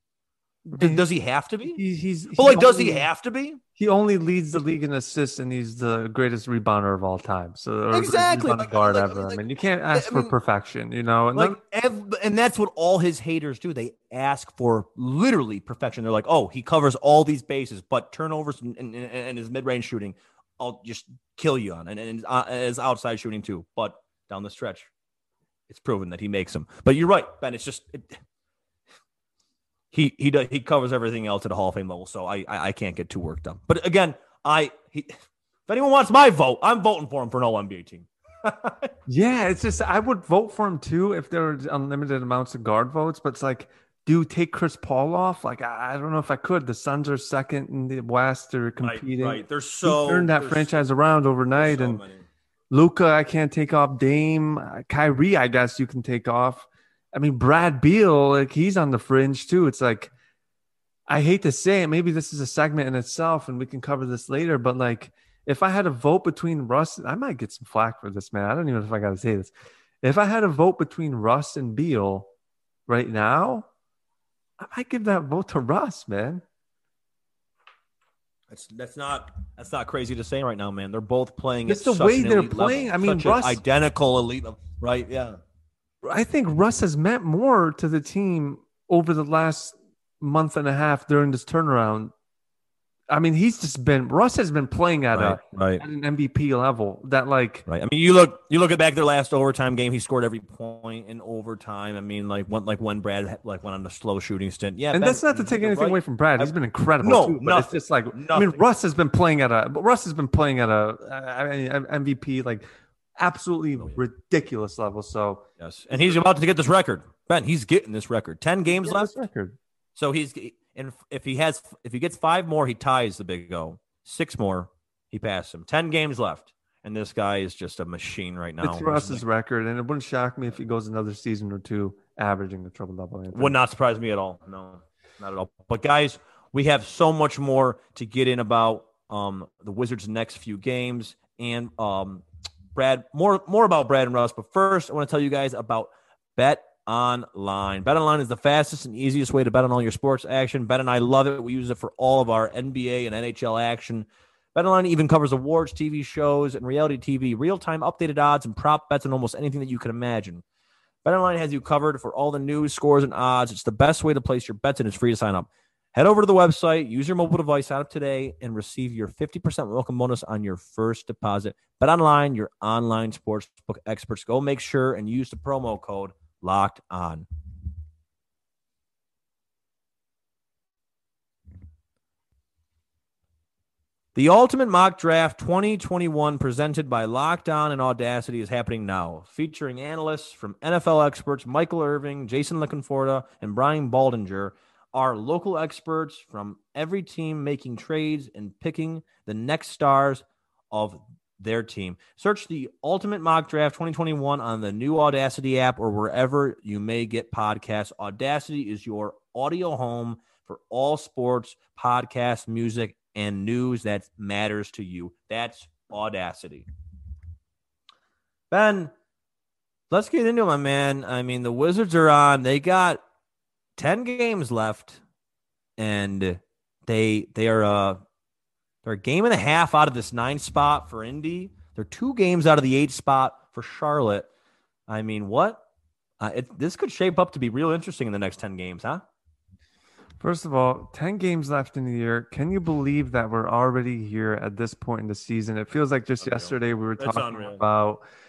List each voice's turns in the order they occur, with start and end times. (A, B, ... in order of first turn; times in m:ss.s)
0:00.7-0:01.0 A
0:00.8-0:01.8 B
0:01.7-0:03.1 A
0:02.4-0:03.6 B
0:03.8-0:11.6 A
0:07.9-0:09.4 B
0:09.9-0:10.3 B
0:11.4-0:24.9 B
0:25.7-0:28.2 B
0:29.9-0:35.2 B
0:35.7-0:38.9 B
0:39.1-0:52.0 A
0:48.8-0:50.8 B
0:51.6-0:52.3 B
0:52.7-1:00.1 A
1:01.1-1:12.3 A
1:12.9-1:13.7 A
1:14.6-1:16.4 A
1:18.5-1:25.4 B
1:21.7-1:23.6 A
1:26.0-1:32.1 A
1:33.1-1:37.7 A
1:35.1-1:35.8 B
1:37.7-1:48.6 B
1:44.9-1:52.6 A
1:53.2-1:56.2 A
1:55.6-1:59.1 B
1:58.7-1:59.6 A
2:00.0-2:09.2 B
2:08.6-2:13.6 A
2:13.3-2:40.4 B
2:41.0-2:57.3 B
3:04.2-3:36.6 B
3:38.5-3:38.9 B
3:39.9-3:43.0 B
3:43.8-3:45.0 B
3:45.8-3:48.0 B
3:48.8-3:54.3 B
3:54.9-3:55.6 B
3:56.2-3:59.1 B
4:00.2-4:08.0 A
4:06.4-4:07.6 B